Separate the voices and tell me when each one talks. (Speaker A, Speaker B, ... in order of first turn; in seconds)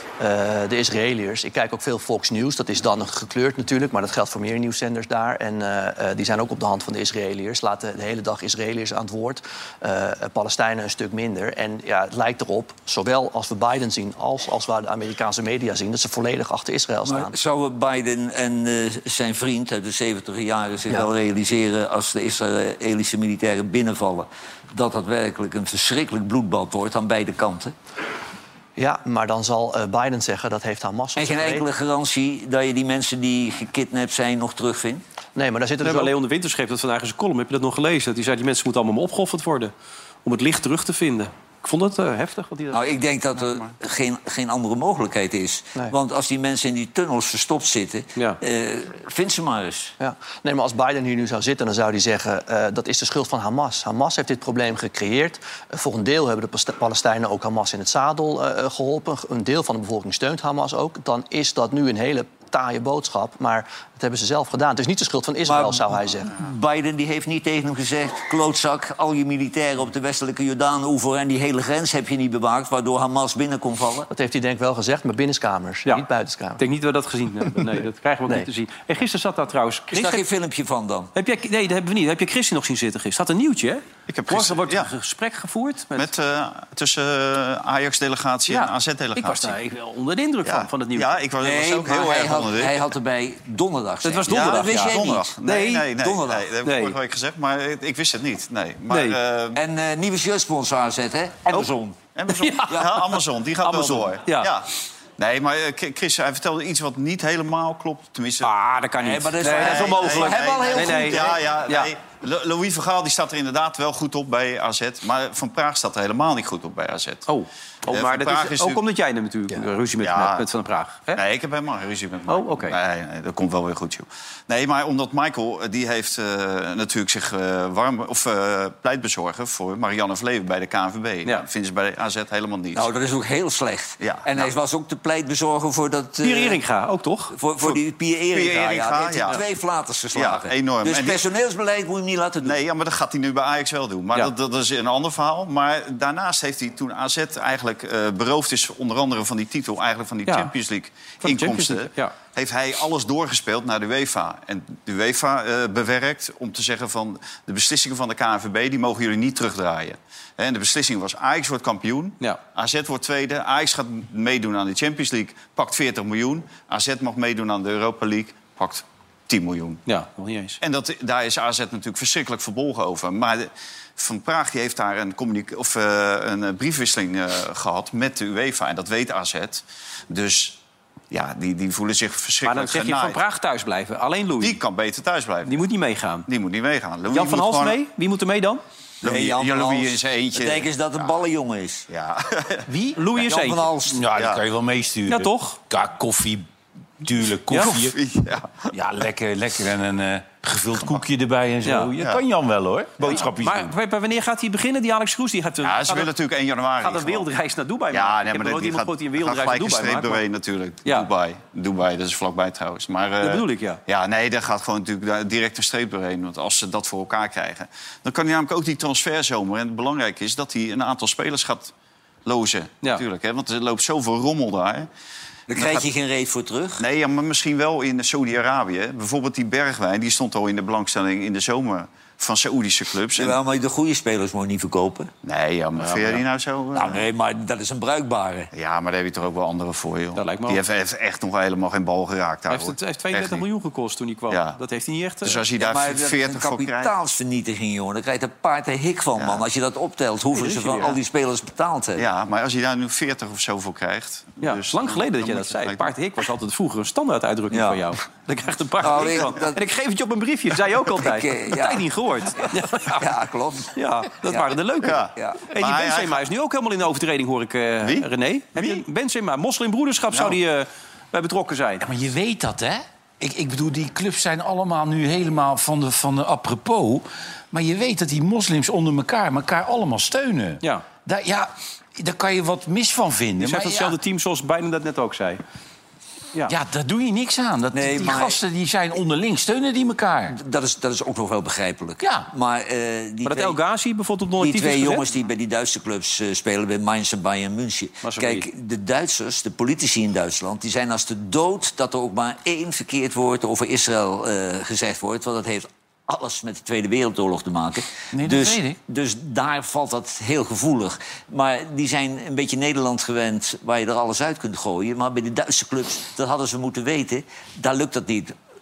Speaker A: 0.2-17.3, 28.8-31.6, 35.3-36.1, 50.0-66.3, 74.1-76.6
Speaker B: 17.0-27.7, 31.1-35.0, 42.7-49.9, 65.4-74.1, 79.9-81.1, 91.4-95.3, 96.0-96.5, 99.5-102.0, 109.0-111.4, 132.7-136.6, 137.3-142.6, 189.0-191.8, 193.1-194.1, 225.5-226.8, 233.2-235.1, 236.7-238.5, 245.6-252.0, 257.5-257.9, 258.8-259.6, 261.0-264.6, 265.1-265.4, 287.7-288.4, 290.3-293.6, 294.4-318.3
Speaker C: 35.8-39.7, 40.2-42.8, 76.6-80.2, 81.1-86.1, 88.5-91.2, 94.0-95.9, 96.6-96.9, 98.9-99.2, 102.3-104.5, 108.4-111.9, 117.3-121.2, 122.3-122.8, 136.2-137.3, 150.3-150.5, 151.2-152.1, 169.9-170.6, 182.4-184.6, 185.4-186.2, 187.1-188.6, 192.7-193.7, 195.1-195.6, 201.6-201.9, 203.0-206.1, 206.8-210.2, 213.2-213.8, 235.9-236.2, 240.2-240.6, 242.5-245.4, 250.3-251.0, 254.4-263.0, 263.7-271.8, 283.4-285.4, 293.2-295.1, 298.0-298.4
Speaker D: 84.1-84.9, 85.9-89.6, 90.4-92.8, 94.4-99.6, 102.1-108.5, 109.4-117.3, 117.9-118.8, 120.0-120.5, 121.1-132.9, 134.0-134.5, 138.3-139.4, 140.1-141.2, 142.4-169.8, 170.6-180.6, 181.1-183.2, 184.4-185.7, 186.3-187.8, 189.0-190.7, 191.9-192.6, 194.1-194.4, 197.6-198.8, 202.0-202.2, 205.6-207.3, 207.9-221.7, 222.2-224.9, 225.5-225.8, 226.8-233.4, 235.2-237.0, 238.5-243.5, 244.3-244.6, 245.2-246.9, 249.2-249.4, 252.0-255.9, 264.8-266.2, 267.8-268.1, 270.1-270.4
Speaker E: 193.9-196.5, 197.0-198.0, 198.7-203.7, 271.8-284.0, 286.5-290.4, 292.0-292.3, 308.1-308.8